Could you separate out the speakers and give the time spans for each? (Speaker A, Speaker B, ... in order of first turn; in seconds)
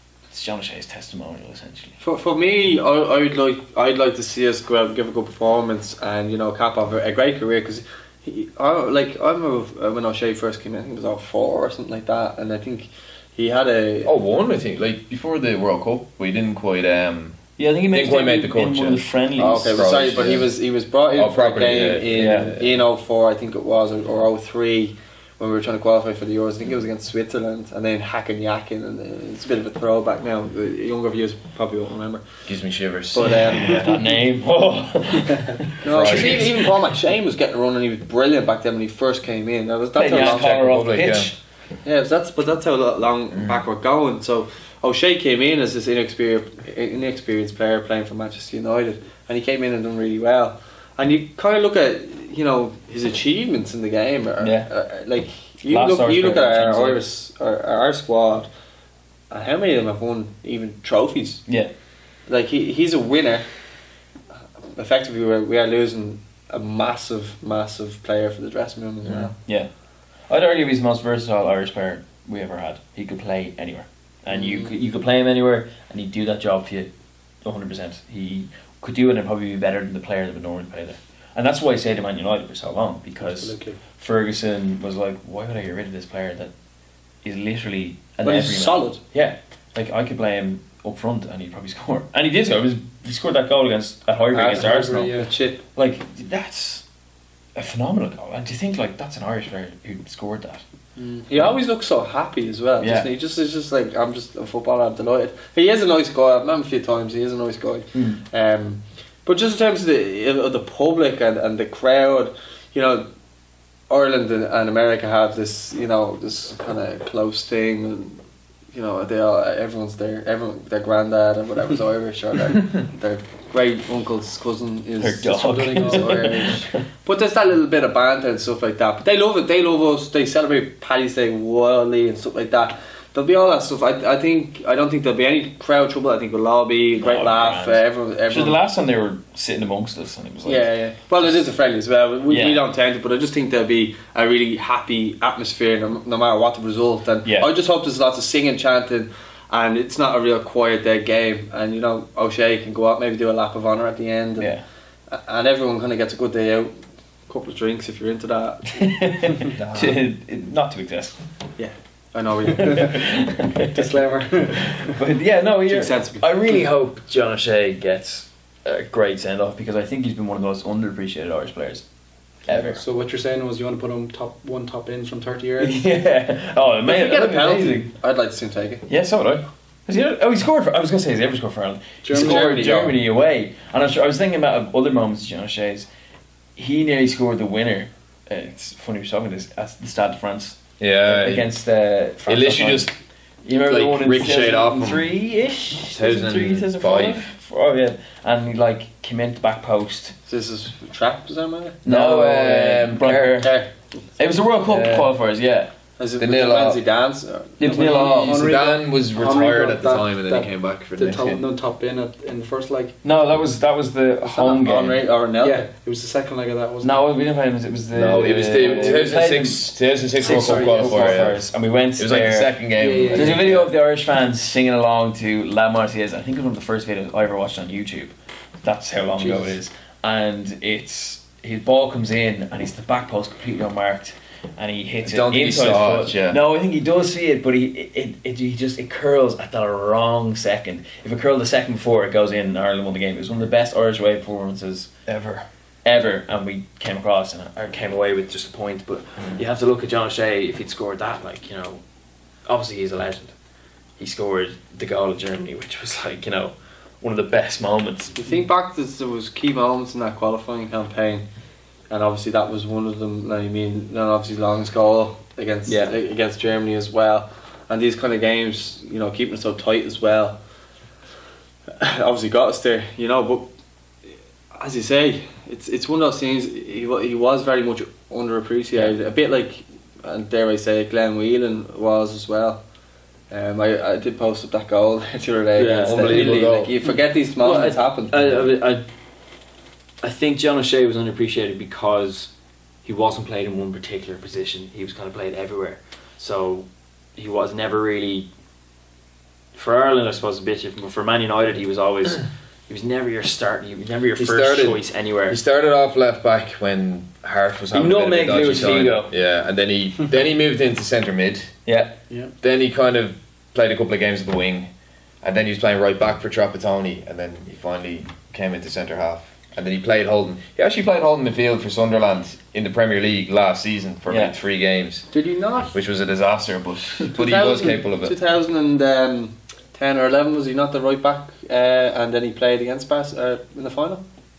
Speaker A: 0.3-2.0, 17.6-19.9, 22.1-22.5, 33.6-36.6, 40.0-41.4, 54.4-54.7, 55.7-57.0, 61.5-61.7, 69.4-86.5, 87.1-95.1, 95.7-96.9, 97.5-100.6, 102.8-103.1, 107.9-108.2, 125.0-126.8, 137.0-141.5, 142.3-142.6, 147.2-147.5, 154.4-154.6, 158.8-161.2, 162.7-163.6, 164.9-172.8, 175.6-177.9, 178.8-185.9, 186.6-192.9, 193.4-200.2, 201.8-203.6, 204.2-205.7, 207.6-208.4, 213.0-215.1, 216.8-245.0, 245.8-251.8, 252.4-253.4, 254.0-258.1, 265.7-266.0, 285.6-286.5, 287.4-288.8, 290.0-298.3, 299.5-305.4, 307.7-309.1, 311.6-312.0, 324.1-324.3
Speaker B: 2.0-14.1, 19.4-34.0, 35.8-40.6, 41.8-58.5, 59.3-61.6, 62.2-63.9, 64.7-69.3, 74.3-74.7, 88.2-89.0, 94.3-95.6, 101.0-113.1, 113.9-138.6, 140.4-156.7, 157.2-159.2, 161.6-163.0, 165.7-166.6, 176.8-178.8, 182.1-182.9, 200.3-201.8, 203.4-204.0, 206.0-207.6, 214.2-215.7, 258.1-261.2, 261.9-270.4, 271.8-282.7, 283.2-288.2, 325.1-325.8, 327.1-334.0
Speaker C: 14.0-20.5, 21.1-22.7, 32.5-33.8, 35.8-36.5, 40.1-41.3, 43.3-43.6, 69.0-69.3, 159.6-160.0, 190.8-191.5, 192.2-192.9, 193.6-195.1, 195.9-197.3, 201.8-203.4, 204.6-205.1, 206.2-206.8, 207.7-211.4, 217.9-223.7, 235.0-236.4, 245.1-245.5, 285.8-286.7, 304.2-311.7, 312.4-314.7, 315.2-325.1, 325.7-328.1
Speaker D: 83.2-83.8, 94.5-95.3, 125.6-126.5, 163.7-164.9, 172.5-175.8, 182.0-182.6, 207.6-213.0, 215.4-217.0, 218.4-219.2, 220.2-221.3, 222.8-223.4, 229.2-229.5